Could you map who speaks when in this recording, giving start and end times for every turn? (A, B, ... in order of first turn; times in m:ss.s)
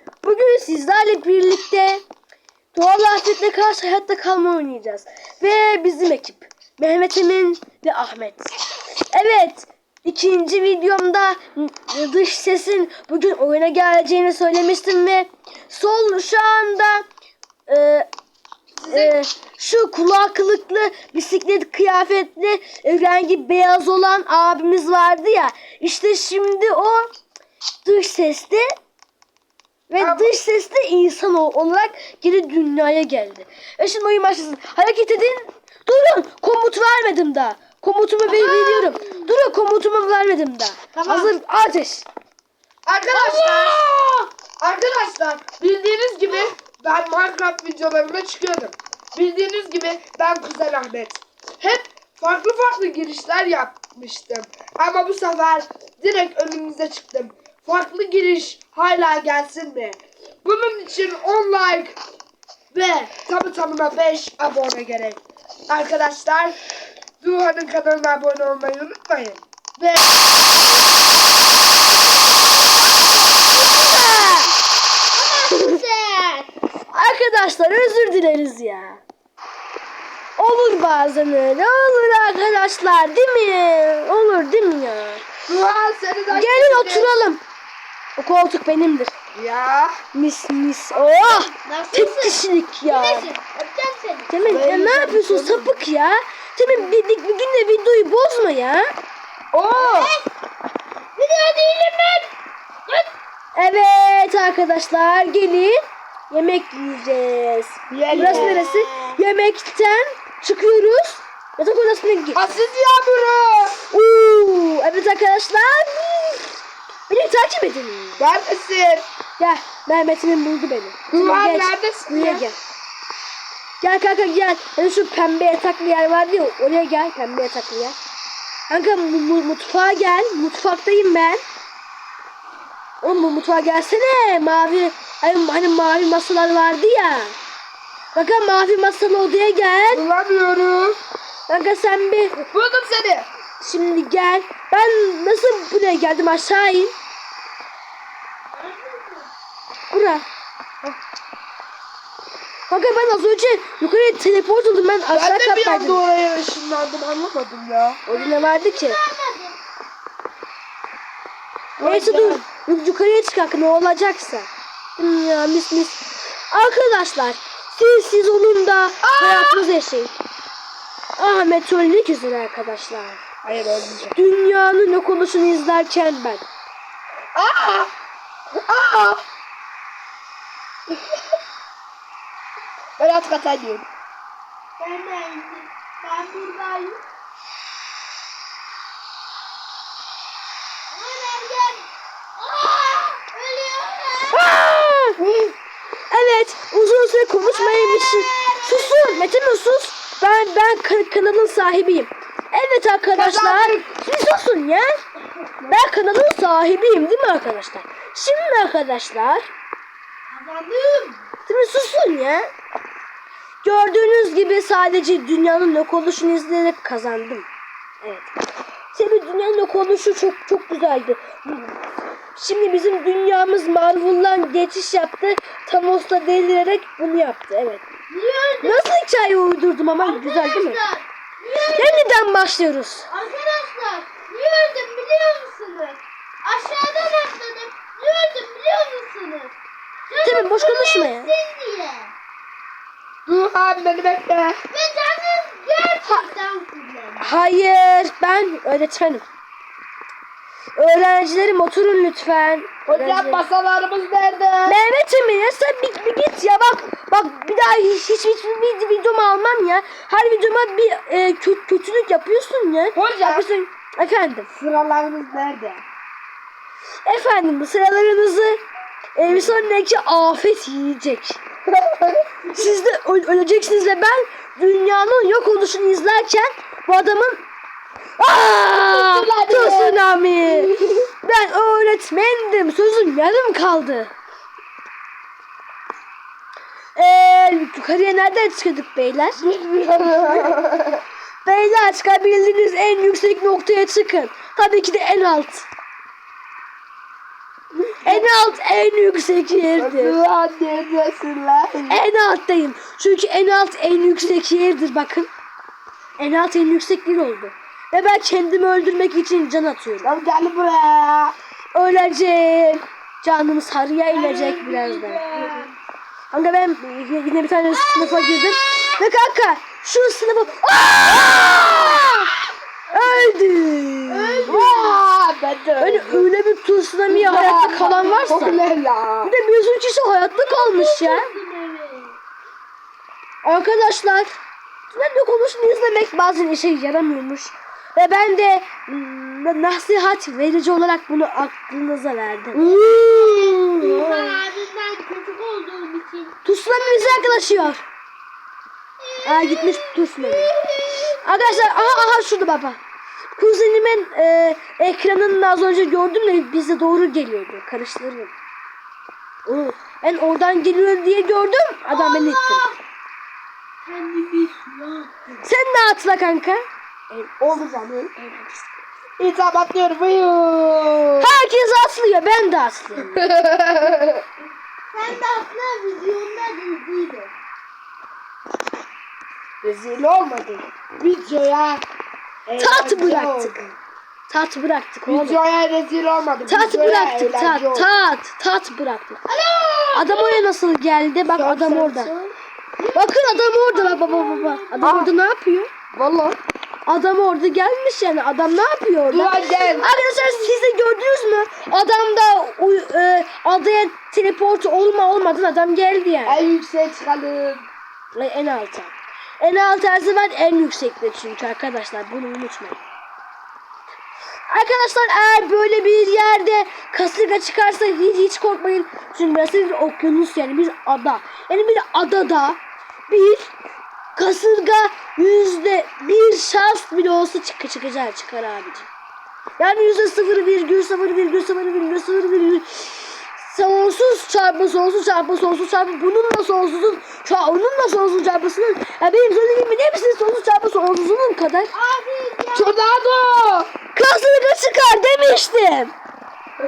0:00.2-0:02.0 A
0:02.7-0:08.6 A
0:09.1-0:17.0 A
0:17.7-0:18.1 A
0:18.8-0:19.1 B
0:18.9-0:27.1 A
0:27.8-0:28.7 A
0:29.9-0:42.0 A
0:30.0-0:30.4 B
0:38.3-0:39.3 C
0:40.9-0:41.3 C
0:42.9-0:43.8 B
0:43.1-0:44.3 C
0:44.6-1:02.0 B
1:02.7-1:06.6 B
1:07.2-1:10.1 B
1:13.4-1:14.5 A
1:15.1-1:16.5 C
1:16.9-1:19.0 A
1:20.4-1:25.2 A
1:25.5-1:27.1 B
1:26.3-1:27.4 A
1:28.2-1:29.1 A
1:29.4-1:30.0 B
1:30.1-1:33.3 A
1:30.9-1:34.3 C
1:34.3-1:38.9 A
1:34.4-1:35.8 B
1:39.5-1:40.1 B
1:39.7-1:40.3 C
1:41.2-1:42.3 C
1:43.6-1:52.6 A
1:47.9-1:48.7 B
1:48.1-1:49.2 C
1:52.4-1:53.8 B
1:53.9-1:56.5 A
1:57.1-1:58.2 A
1:58.2-1:59.0 B
1:59.4-2:02.6 A
2:01.1-2:02.4 B
2:03.8-2:08.0 A
2:08.7-2:11.4 A
2:13.0-2:17.4 A
2:18.1-2:20.0 A
2:19.9-2:21.0 B
2:21.5-2:22.4 A
2:22.5-2:23.3 B
2:23.6-2:26.9 A
2:28.5-2:29.3 C
2:29.9-2:30.2 A
2:32.7-2:36.0 A
2:35.1-2:38.0 B
2:38.1-2:39.0 A
2:38.1-2:39.6 C
2:41.8-2:42.4 B
2:41.8-2:46.0 A
2:46.5-2:50.1 A
2:49.0-2:49.7 B
2:51.2-2:53.2 A
2:53.4-2:54.2 B
2:54.2-2:56.4 A
2:57.4-2:57.9 B
2:58.6-2:59.2 B
3:03.0-3:03.9 B
3:04.8-3:07.0 C
3:10.9-3:11.9 C
3:12.4-3:14.5 C
3:14.3-3:15.2 A
3:15.2-3:15.6 B
3:16.1-3:25.0 A
3:17.4-3:19.3 C
3:23.2-3:23.9 B
3:25.7-3:29.5 A
3:30.3-3:31.2 C
3:31.5-3:32.5 A
3:33.6-3:37.5 A
3:38.0-3:38.3 A
3:38.9-3:41.8 A
3:42.4-3:47.8 A
3:48.1-3:48.8 C
3:48.6-3:50.8 A
3:50.0-3:52.2 C
3:51.8-3:53.1 A
3:53.1-3:59.5 C
4:00.1-4:02.1 C
4:00.2-4:01.3 A
4:03.3-4:04.6 B
4:04.7-4:07.3 C
4:07.2-4:09.2 A
4:10.8-4:13.4 A
4:12.9-4:14.8 B
4:14.6-4:24.5 A
4:22.9-4:23.4 B
4:24.6-4:25.8 B
4:27.0-4:28.6 A
4:29.2-4:31.4 A
4:31.7-4:32.3 B
4:32.5-4:37.4 A
4:38.2-4:44.1 A
4:38.9-4:41.1 B
4:47.0-4:49.4 A
4:49.4-4:51.0 B
4:51.4-4:55.7 A
4:58.0-5:00.2 A
4:59.8-5:02.0 B
5:01.9-5:05.3 A
5:06.2-5:10.1 A
5:10.0-5:11.4 B
5:11.7-5:15.2 A
5:14.2-5:15.7 C
5:15.3-5:15.7 B
5:16.3-5:22.4 A
5:17.7-5:19.0 C
5:22.9-5:24.6 A
5:24.1-5:25.0 C
5:24.5-5:26.3 B
5:25.8-5:28.6 A
5:27.1-5:29.3 B
5:27.7-5:28.5 C
5:29.2-5:31.3 A
5:30.3-5:32.2 C
5:33.4-5:34.3 A
5:34.9-5:42.7 A
5:42.6-5:47.5 C
5:43.9-5:44.4 A
5:46.4-5:47.8 A
5:49.0-5:52.2 C
5:49.2-5:50.5 A
5:51.2-5:52.8 A
5:53.4-5:58.3 A
5:59.5-6:02.7 A
6:01.9-6:02.8 C
6:03.8-6:05.4 C
6:05.4-6:07.3 A
6:07.4-6:08.2 B
6:08.2-6:08.7 A
6:09.2-6:11.3 B
6:11.2-6:13.3 A
6:13.2-6:14.2 B
6:14.9-6:17.3 C
6:19.6-6:21.8 B
6:22.5-6:23.7 B
6:22.6-6:23.6 A
6:24.3-6:25.4 A
6:25.1-6:27.9 B
6:26.5-6:29.2 A
6:29.3-6:30.5 C
6:29.9-6:32.1 A
6:31.4-6:32.4 B
6:32.8-6:35.1 C
6:32.9-6:35.7 A
6:34.8-6:35.1 B
6:35.9-6:36.4 B
6:36.9-6:46.5 A
6:39.1-6:39.9 B
6:39.3-6:40.5 C
6:46.3-6:47.7 B
6:48.1-6:52.8 A
6:54.5-7:03.5 A
7:04.2-7:08.9 A
7:09.6-7:21.7 A
7:21.7-7:22.8 C
7:22.5-7:23.7 B
7:24.0-7:25.9 A